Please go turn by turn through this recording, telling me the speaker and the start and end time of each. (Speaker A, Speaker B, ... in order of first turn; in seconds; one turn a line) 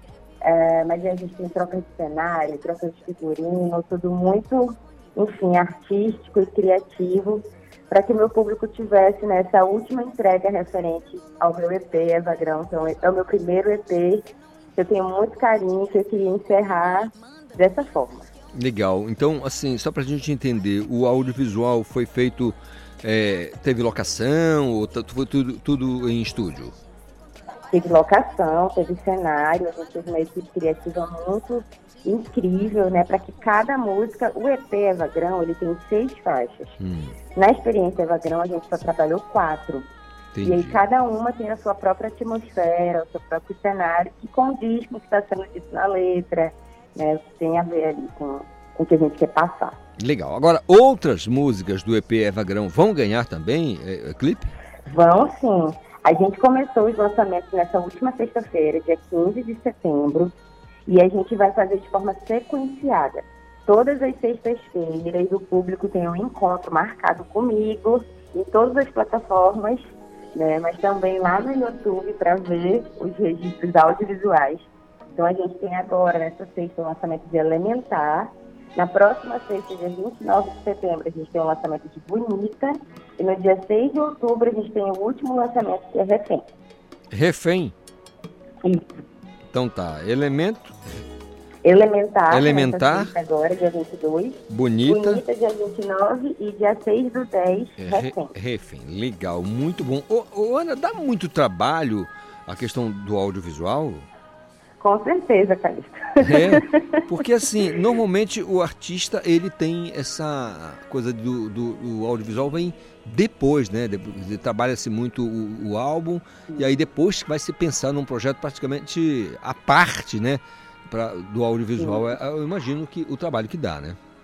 Speaker A: 0.4-18.3
Speaker B: 18.5-26.7
Speaker A: 27.7-36.7
Speaker B: 36.8-37.1
Speaker A: 37.4-39.9
Speaker B: 40.3-40.8
Speaker A: 40.4-49.8
Speaker B: 50.0-54.5
Speaker A: 54.9-60.3
Speaker A: 60.9-86.4
Speaker B: 87.1-87.7
Speaker A: 88.6-88.9
Speaker B: 89.5-90.8
Speaker A: 91.6-98.3
Speaker B: 92.3-93.1
Speaker B: 94.5-95.2
Speaker B: 97.8-104.1
Speaker A: 104.8-106.8
Speaker B: 106.2-124.0
Speaker A: 121.8-122.1